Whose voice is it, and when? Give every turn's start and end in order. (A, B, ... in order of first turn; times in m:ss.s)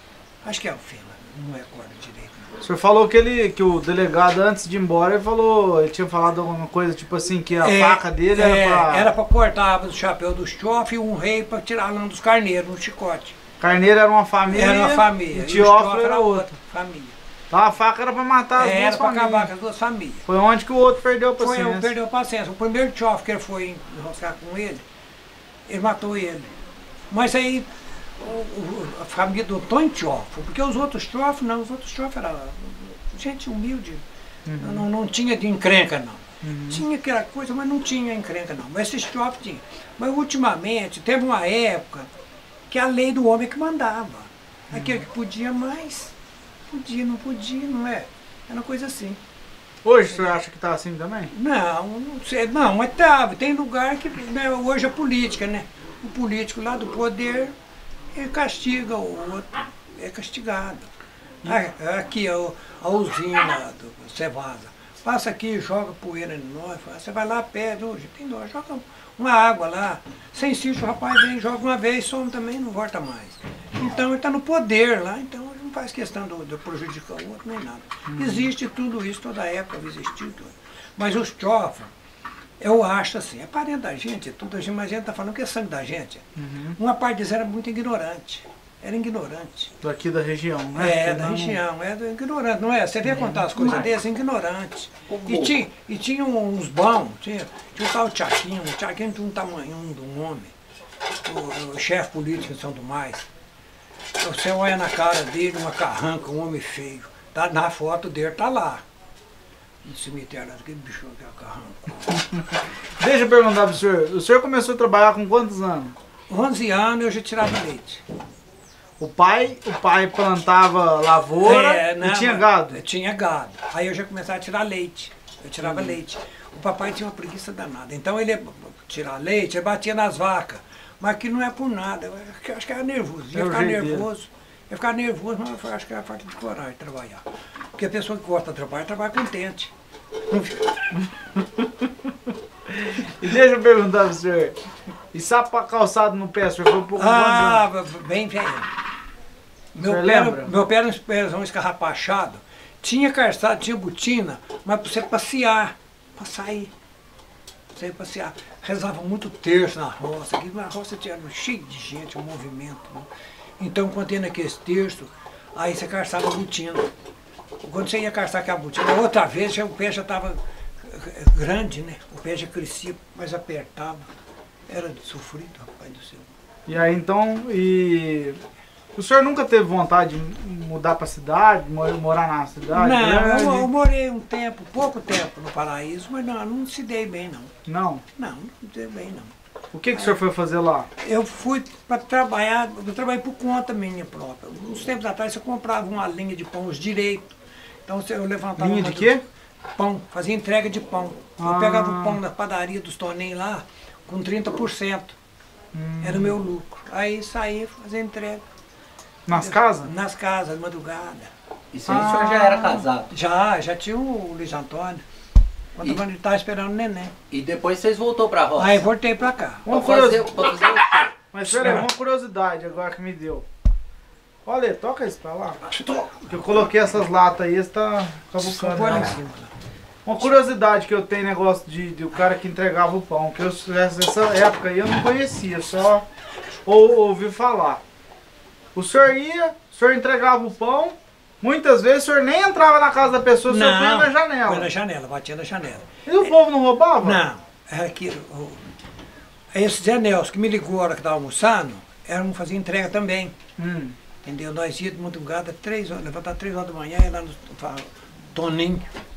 0:00.4-0:02.5 A
0:02.6-0:09.1 B
0:07.6-0:13.4 A
0:13.6-0:16.5 B
0:14.5-0:17.2 A
0:17.5-0:19.5 B
0:18.5-0:20.2 A
0:20.2-0:21.9 B
0:21.4-0:24.8 A
0:25.7-0:26.5 A
0:27.1-0:34.0 A
0:34.4-0:34.8 B
0:34.6-0:42.1 A
0:36.4-0:36.8 B
0:42.7-0:46.1 A
0:46.7-0:49.2 A
0:49.8-0:51.3 B
0:50.1-0:50.4 A
0:51.3-0:57.5 A
0:58.1-1:00.9 A
1:01.4-1:21.9 A
1:18.0-1:18.5 B
1:22.6-1:29.7 A
1:26.4-1:26.8 B
1:29.8-1:31.6 B
1:30.7-1:40.5 A
1:33.0-1:33.4 B
1:33.6-1:33.9 C
1:35.1-1:35.5 C
1:41.2-1:43.3 A
1:44.2-1:48.8 A
1:49.8-1:52.2 A
1:53.0-1:55.9 B
1:56.3-1:58.0 A
1:59.0-2:02.8 B
2:01.4-2:19.7 A
2:05.6-2:05.9 B
2:13.3-2:14.1 B
2:20.3-2:20.8 A
2:22.7-2:24.6 B
2:25.1-2:27.6 B
2:27.0-2:28.7 A
2:29.7-2:36.7 A
2:29.8-2:30.5 B
2:37.7-2:43.1 A
2:43.6-2:46.9 A
2:47.6-2:54.1 A
2:54.7-2:56.3 A
2:56.7-2:58.4 B
2:58.9-3:03.7 B
3:02.7-3:07.5 A
3:07.6-3:08.0 B
3:08.2-3:09.3 A
3:09.7-3:10.9 B
3:09.9-3:10.2 A
3:11.0-3:17.3 A
3:17.8-3:19.2 A
3:18.6-3:19.2 B
3:19.7-3:25.2 A
3:21.4-3:22.2 B
3:25.7-3:26.3 B
3:26.0-3:28.4 A
3:29.2-3:29.9 B
3:29.3-3:31.3 A
3:31.7-3:33.1 C
3:31.9-3:32.5 B
3:31.9-3:35.0 A
3:35.8-3:37.1 A
3:37.3-3:38.8 C
3:38.5-3:39.7 A
3:39.6-3:41.1 C
3:39.7-3:40.3 B
3:41.3-3:43.4 B
3:41.4-3:41.9 A
3:44.4-3:45.6 B
3:45.7-3:46.3 A
3:46.3-3:49.2 B
3:48.4-3:49.5 A
3:50.0-3:56.0 B
3:56.6-3:57.8 B
3:58.7-4:04.7 B
4:03.5-4:06.3 A
4:06.0-4:07.2 B
4:07.0-4:08.6 A
4:09.5-4:13.4 A
4:13.6-4:14.0 B
4:14.2-4:18.9 A